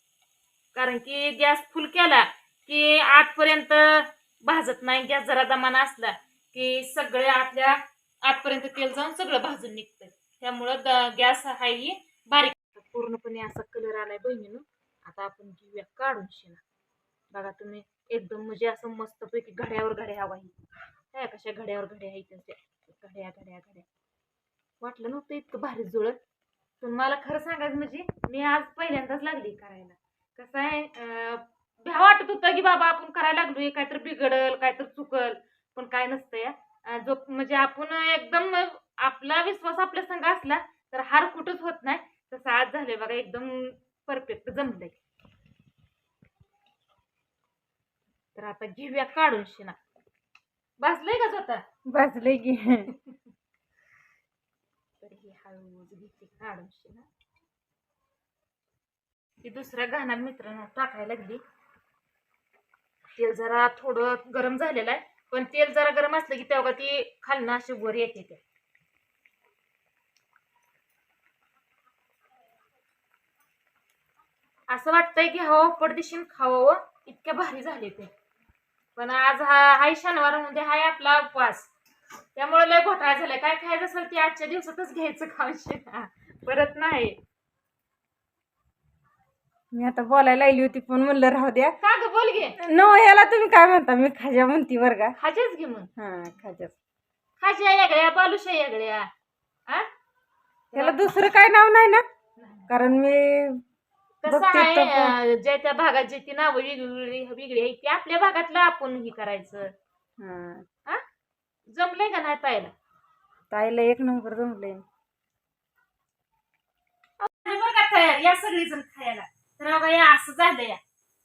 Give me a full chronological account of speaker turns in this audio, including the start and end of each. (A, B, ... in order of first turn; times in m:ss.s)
0:00.7-0:16.6 A
0:17.3-0:20.5 A
0:21.1-0:23.8 A
0:24.8-0:26.2 A
0:26.8-0:45.0 A
0:48.3-0:49.8 A
0:50.8-0:51.6 A
0:51.9-0:52.9 B
0:55.0-0:57.0 A
0:59.4-1:01.4 A
1:03.2-1:08.4 A
1:14.7-1:18.1 A
1:19.0-1:21.7 A
1:22.3-1:27.2 A
1:29.7-1:31.7 B
1:31.8-1:32.6 A
1:32.6-1:35.1 B
1:35.2-1:35.9 A
1:36.0-1:36.8 B
1:37.4-1:39.1 A
1:40.7-1:42.0 B
1:40.7-1:41.2 A
1:42.4-1:42.7 A
1:42.7-1:43.6 B
1:44.2-1:49.7 A
1:44.2-1:45.1 B
1:50.2-1:50.6 B
1:51.7-1:52.7 A
1:53.5-1:54.8 B
1:57.2-2:00.8 A